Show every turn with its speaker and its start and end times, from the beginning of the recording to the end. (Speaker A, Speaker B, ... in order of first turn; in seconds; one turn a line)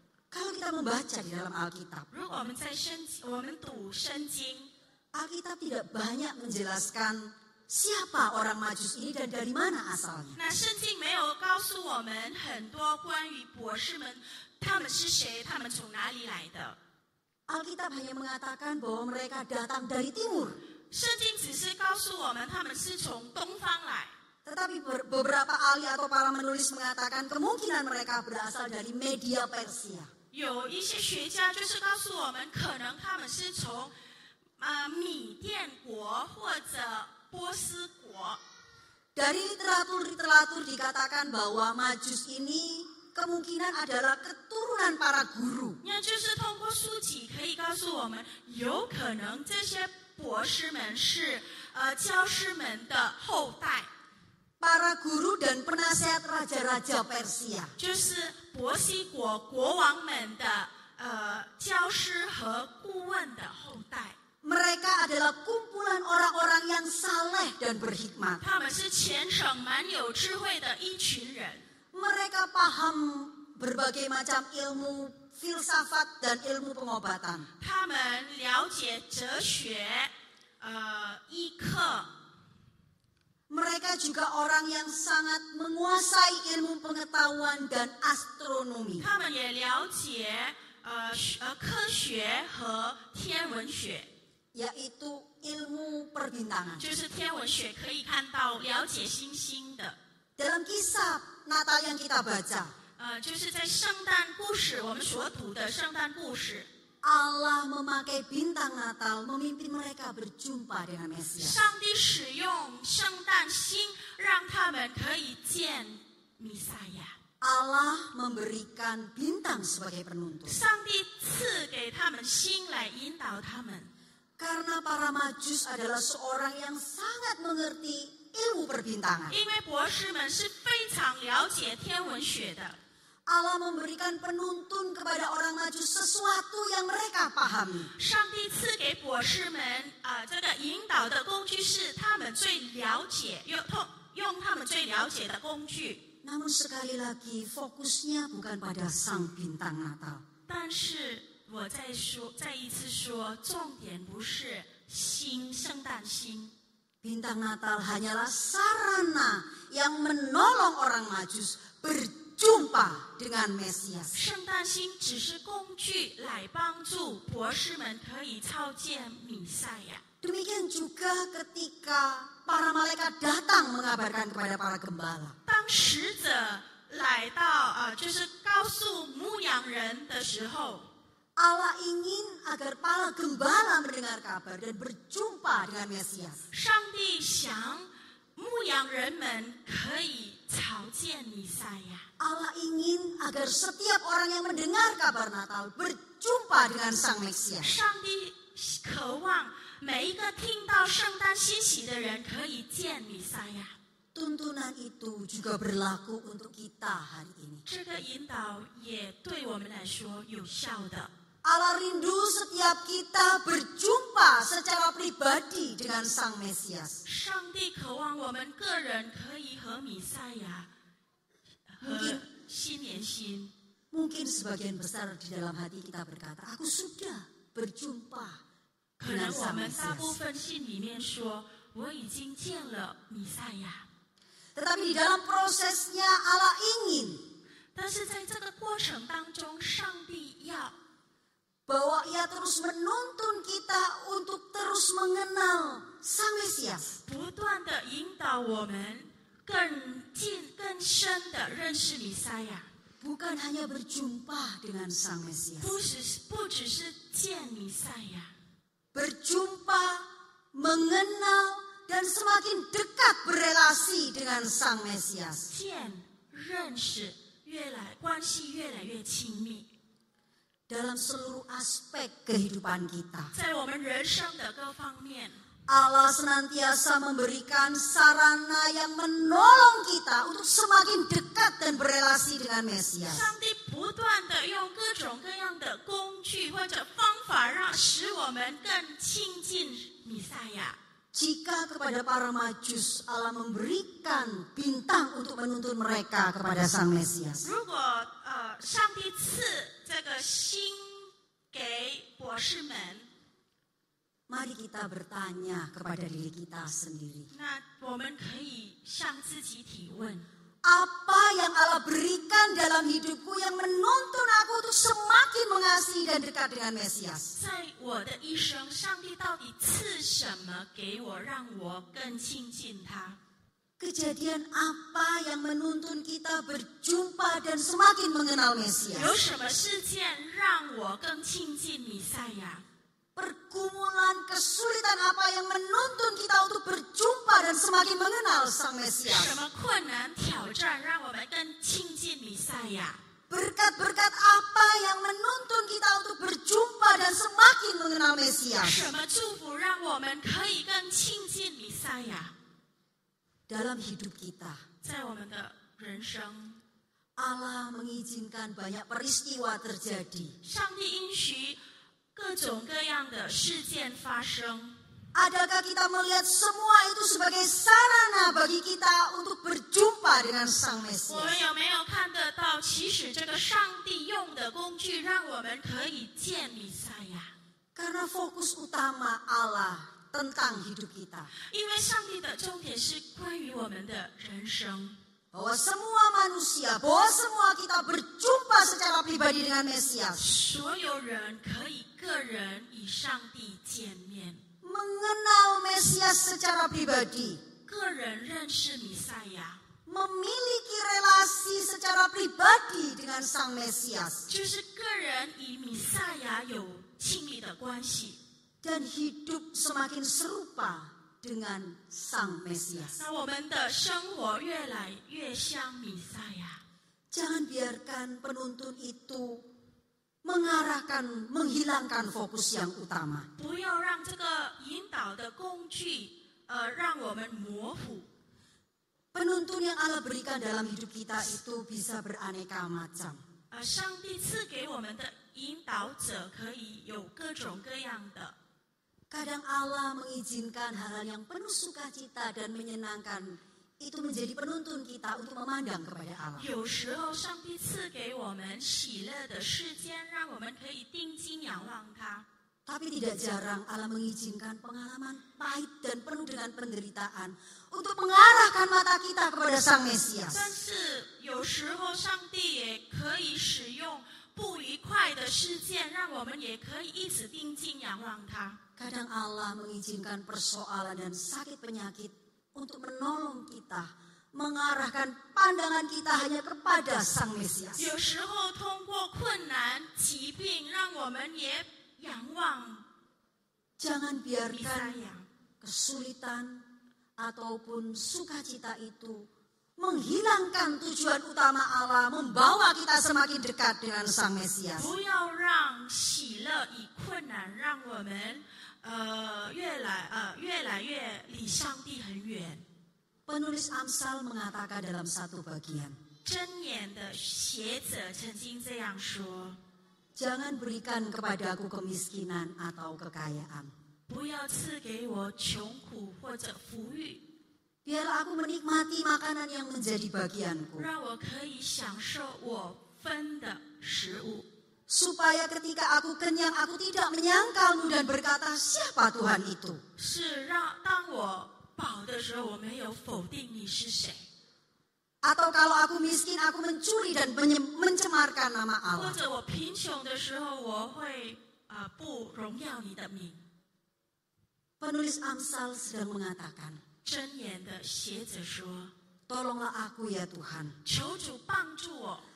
Speaker A: 0.3-2.1
Speaker B: 2.1-4.7
Speaker A: 5.1-10.4
Speaker B: 10.3-16.8
Speaker A: 17.5-20.6
Speaker B: 20.9-24.1
Speaker A: 24.4-30.1
Speaker B: 30.3-33.9
Speaker B: 34.6-38.4
Speaker A: 39.1-45.8
Speaker B: 45.8-53.9
Speaker A: 54.6-57.7
Speaker B: 57.8-64.2
Speaker A: 64.4-68.4
Speaker B: 68.4-71.7
Speaker A: 71.9-77.5
Speaker B: 77.6-82.1
Speaker A: 83.5-89.0
Speaker B: 89.0-94.1
Speaker A: 94.5-96.8
Speaker B: 96.8-100.0
Speaker A: 100.4-102.7
Speaker B: 103.0-106.7
Speaker A: 107.0-111.6
Speaker B: 111.4-117.1
Speaker A: 117.4-120.5
Speaker B: 120.5-123.9
Speaker A: 124.4-129.3
Speaker B: 129.3-132.8
Speaker A: 133.3-137.9
Speaker B: 137.9-146.1
Speaker A: 146.2-150.2
Speaker B: 150.5-156.5
Speaker A: 157.0-164.2
Speaker B: 164.1-170.0
Speaker A: 170.2-175.3
Speaker B: 175.4-180.9
Speaker A: 181.4-186.4
Speaker B: 186.5-192.0
Speaker A: 192.2-197.7
Speaker B: 197.6-203.7
Speaker A: 204.1-207.6
Speaker B: 207.7-211.1
Speaker A: 211.4-217.0
Speaker B: 217.0-220.7
Speaker B: 221.7-223.5
Speaker A: 221.8-222.2
Speaker A: 223.9-228.4
Speaker B: 229.0-233.8
Speaker A: 229.0-230.2
Speaker A: 234.5-237.2
Speaker B: 237.7-240.8
Speaker A: 241.7-247.0
Speaker B: 247.1-252.7
Speaker A: 253.0-255.8
Speaker B: 255.6-258.3
Speaker A: 258.9-265.5
Speaker B: 265.5-269.7
Speaker A: 270.7-273.3
Speaker B: 273.3-275.4
Speaker A: 275.7-283.3
Speaker B: 283.1-290.8
Speaker A: 291.1-297.5
Speaker B: 297.4-303.1
Speaker A: 304.3-307.3
Speaker B: 307.3-310.2
Speaker A: 310.6-317.3
Speaker B: 317.3-323.2
Speaker A: 323.8-329.1
Speaker B: 328.9-332.6
Speaker A: 333.1-339.4
Speaker B: 339.1-343.0
Speaker A: 343.3-348.9
Speaker B: 348.6-352.3
Speaker A: 353.5-354.6
Speaker B: 354.8-356.6
Speaker A: 357.2-360.3
Speaker B: 360.4-361.6
Speaker B: 362.1-364.8
Speaker A: 365.1-371.4
Speaker B: 371.1-377.3
Speaker A: 377.7-381.3
Speaker B: 381.5-385.0
Speaker A: 385.3-390.2
Speaker B: 390.2-394.4
Speaker A: 394.6-397.4
Speaker B: 397.7-399.6
Speaker A: 399.9-404.3
Speaker B: 404.3-408.2
Speaker A: 408.6-413.0
Speaker B: 412.9-416.6
Speaker A: 417.1-419.5
Speaker A: 420.2-423.3
Speaker B: 423.4-428.1
Speaker A: 429.1-433.2
Speaker B: 433.5-438.3
Speaker A: 439.1-446.5
Speaker B: 446.4-452.2
Speaker A: 452.6-460.4
Speaker B: 460.3-468.6
Speaker A: 468.8-477.9
Speaker B: 477.8-482.8
Speaker A: 483.8-485.0
Speaker B: 484.4-485.2
Speaker A: 485.6-486.6
Speaker A: 487.2-494.9
Speaker B: 494.8-502.6
Speaker A: 503.3-505.9
Speaker B: 506.2-509.6
Speaker A: 510.1-513.7
Speaker B: 514.1-517.2
Speaker A: 517.8-520.9
Speaker B: 520.8-524.5
Speaker A: 524.9-529.8
Speaker B: 530.0-534.2
Speaker A: 535.2-539.2
Speaker B: 538.9-543.4
Speaker A: 544.8-546.8
Speaker B: 547.0-548.9
Speaker A: 549.3-550.7
Speaker B: 550.8-552.2